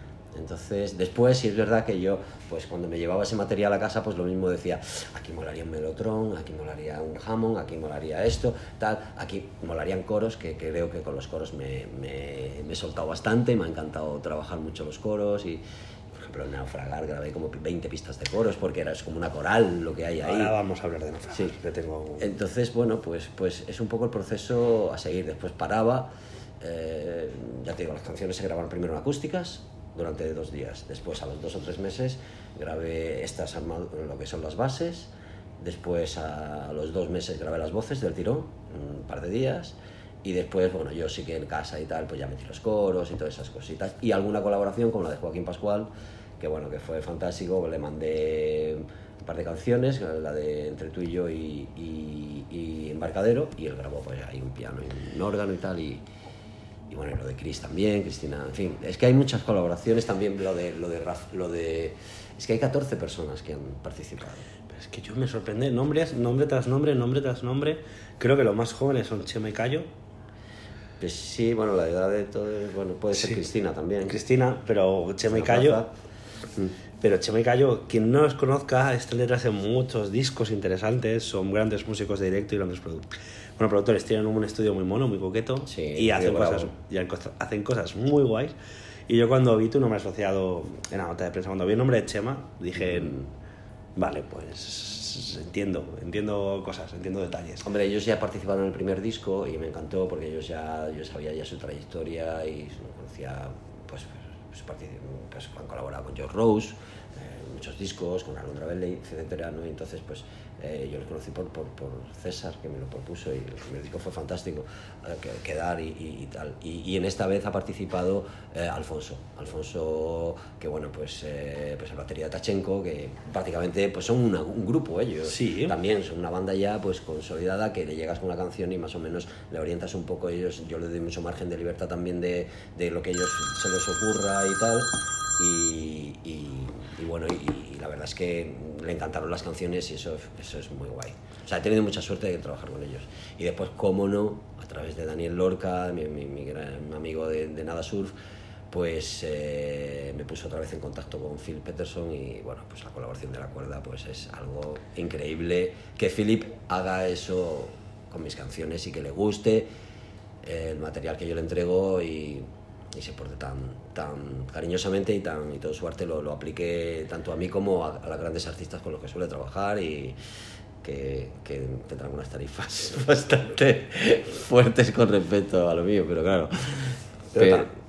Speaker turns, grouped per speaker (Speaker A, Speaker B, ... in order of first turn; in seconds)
Speaker A: 0.3-15.6, 16.2-20.5, 22.2-56.0, 56.9-64.5, 71.0-74.2, 75.3-75.9, 85.7-86.7, 92.9-93.3, 97.6-148.1, 148.7-159.7, 160.4-170.2, 170.8-177.7
Speaker B: 20.2-22.3, 64.7-69.8, 74.0-75.8, 77.0-88.5, 89.1-93.2, 94.0-97.6, 125.3-125.8, 177.3-177.7